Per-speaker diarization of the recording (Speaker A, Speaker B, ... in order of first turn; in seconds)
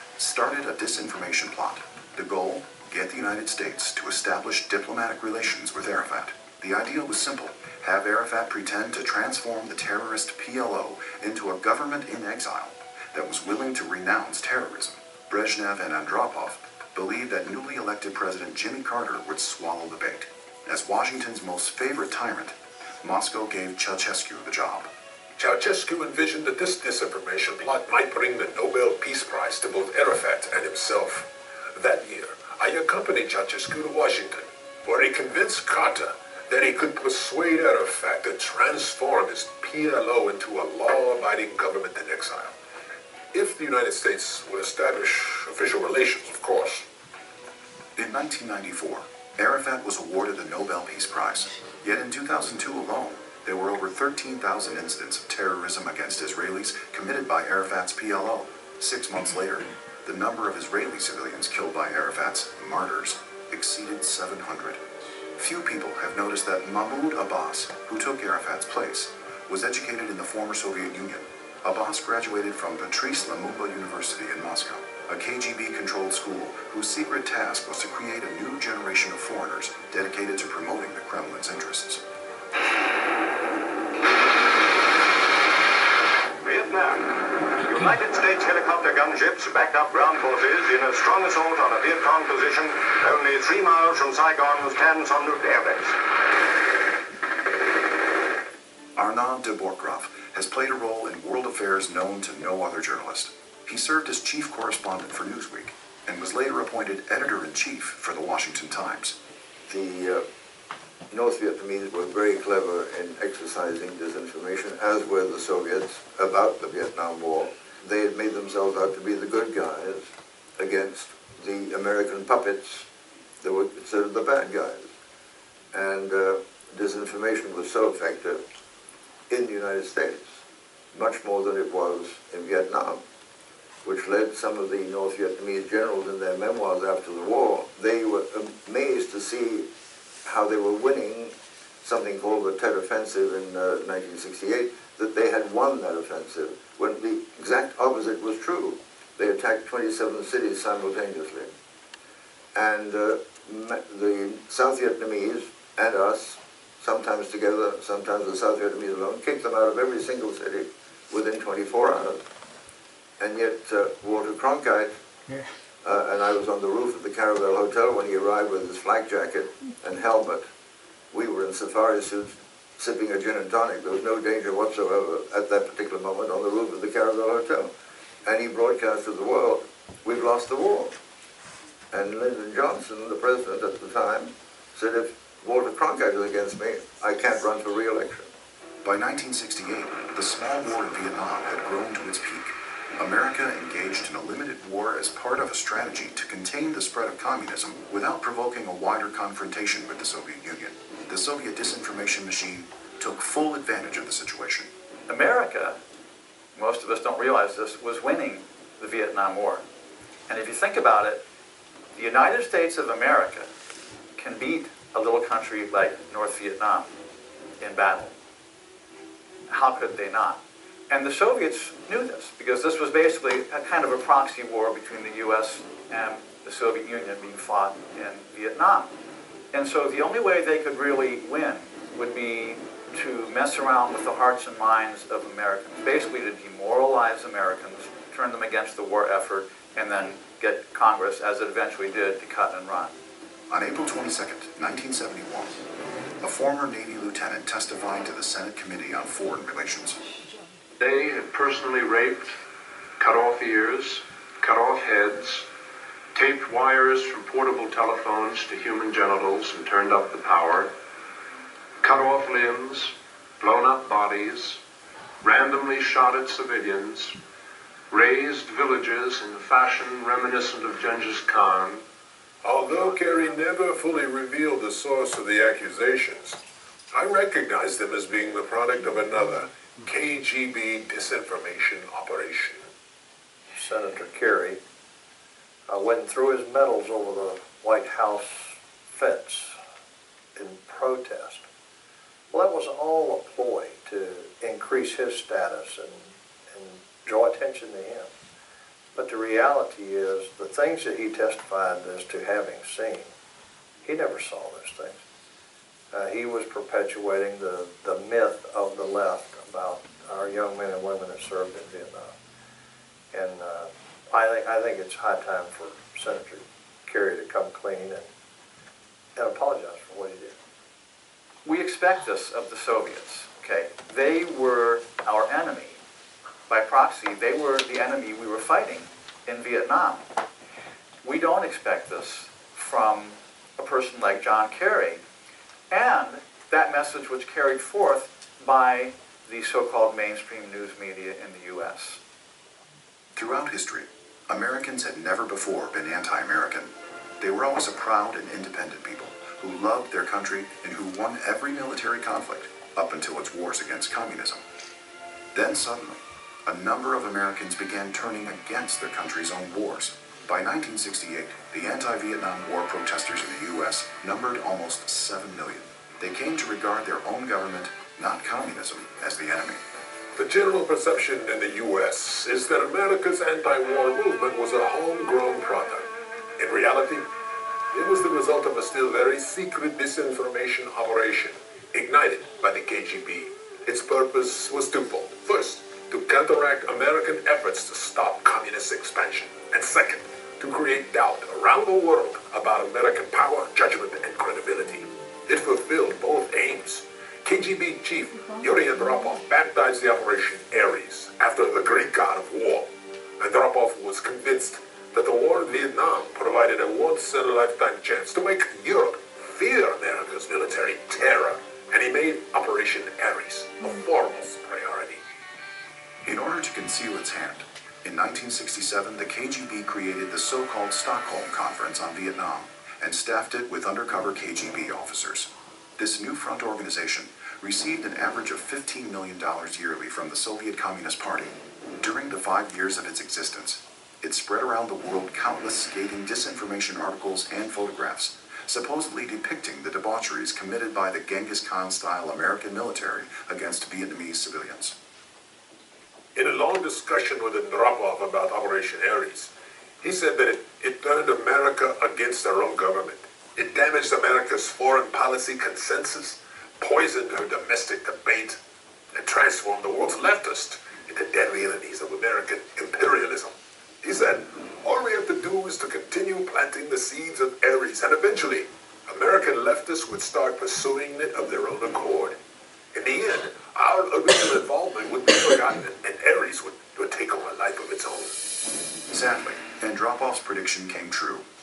Speaker A: 0.2-24.9, 48.0-64.8, 65.4-82.0, 99.0-109.2, 188.8-204.7, 243.5-245.6, 246.2-250.0, 343.1-354.4, 355.3-369.6, 416.0-444.8, 478.9-481.2
Speaker B: 25.4-42.5, 43.3-46.9, 272.4-276.4, 276.9-282.7, 370.1-377.1, 377.7-402.7, 403.2-415.0, 446.1-449.3, 449.8-458.4, 458.9-472.2, 472.7-478.2
Speaker C: 86.4-96.0
Speaker D: 109.7-110.2, 111.1-122.9, 123.4-124.9, 125.7-128.4, 129.3-130.4, 130.9-133.0, 133.8-139.7, 140.2-151.5, 152.6-162.2, 163.2-164.9, 165.8-170.5, 171.1-177.7, 178.2-180.9, 181.9-188.3
Speaker E: 205.1-205.8, 206.6-209.6, 210.3-211.2, 211.9-213.5, 214.2-216.9, 217.6-218.1, 219.5-220.4, 220.9-228.9, 229.5-242.9, 321.4-325.8, 326.5-330.1, 331.0-335.0, 335.7-342.0
Speaker F: 250.8-252.3, 253.0-255.5, 256.1-260.7, 261.8-264.6, 265.2-267.2, 267.9-271.8
Speaker G: 283.5-284.6, 285.7-289.6, 290.4-291.4, 292.3-298.1, 299.0-303.1, 303.8-305.0, 305.9-312.1, 313.1-318.1, 319.2-320.4